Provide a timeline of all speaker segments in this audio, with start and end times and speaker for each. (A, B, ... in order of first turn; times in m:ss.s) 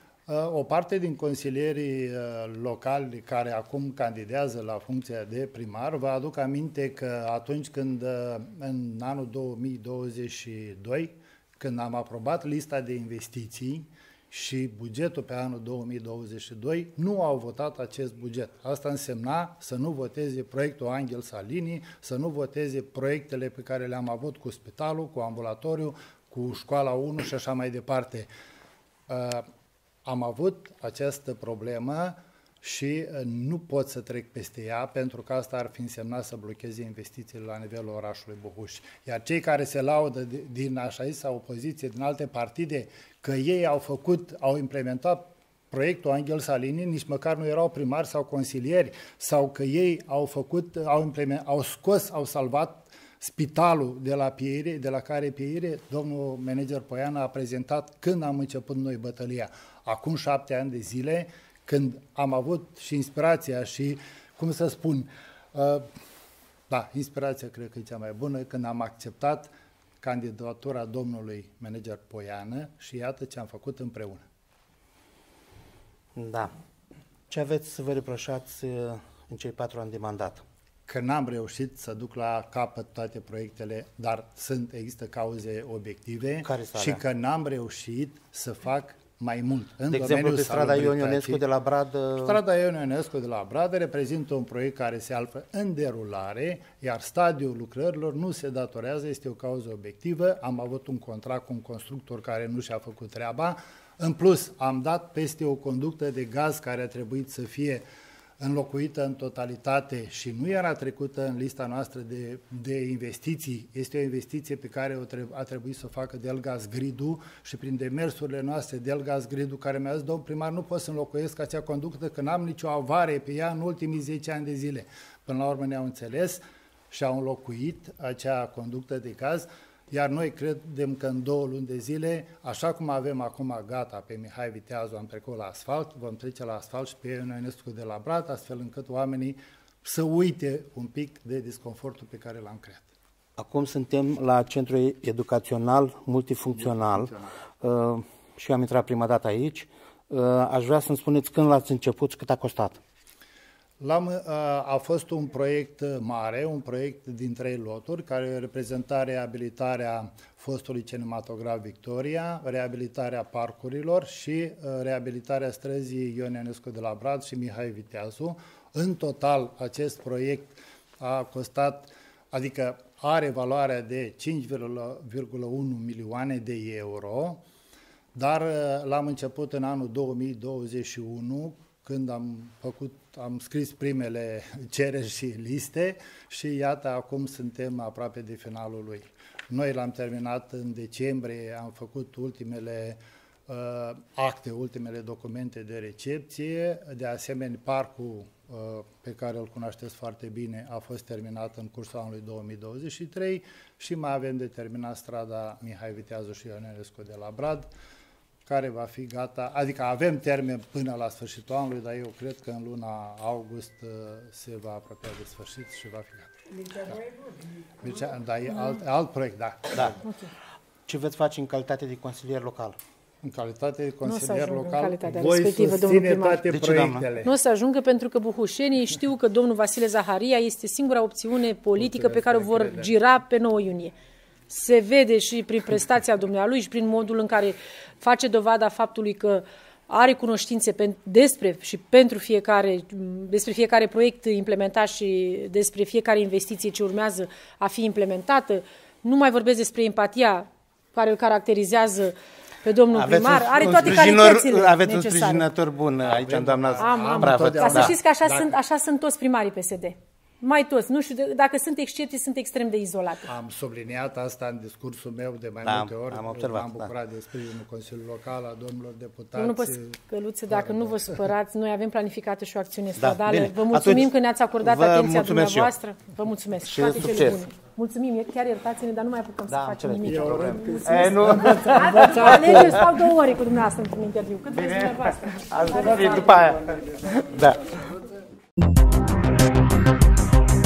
0:00.3-0:28.3 A
0:29.1-0:29.5 A
0:30.1-1:05.9 A
1:06.7-1:14.2 A
1:16.2-1:16.5 B
1:17.3-1:20.4 B
1:20.9-1:31.4 A
1:26.4-1:27.0 B
1:29.9-1:32.4 B
1:32.2-1:47.8 A
1:48.4-2:22.9 A
2:23.4-2:32.8 B
2:33.8-2:57.4 A
2:58.1-3:27.7 A
3:28.5-3:37.0 A
3:37.8-3:40.0 A
3:40.0-3:40.3 C
3:40.9-3:42.8 B
3:43.2-3:47.3 A
3:44.0-3:46.4 C
3:46.5-3:47.1 B
3:47.2-3:53.9 C
3:51.8-3:52.9 A
3:54.5-4:15.5 C
4:12.9-4:18.0 B
4:16.0-4:18.5 A
4:16.8-4:23.3 C
4:23.3-4:29.9 A
4:25.6-4:26.9 B
4:29.4-4:46.4 C
4:30.5-4:31.0 A
4:33.0-4:34.1 B
4:34.6-4:35.7 B
4:36.7-4:37.4 B
4:39.5-4:42.8 B
4:40.0-4:42.8 A
4:44.5-4:47.8 B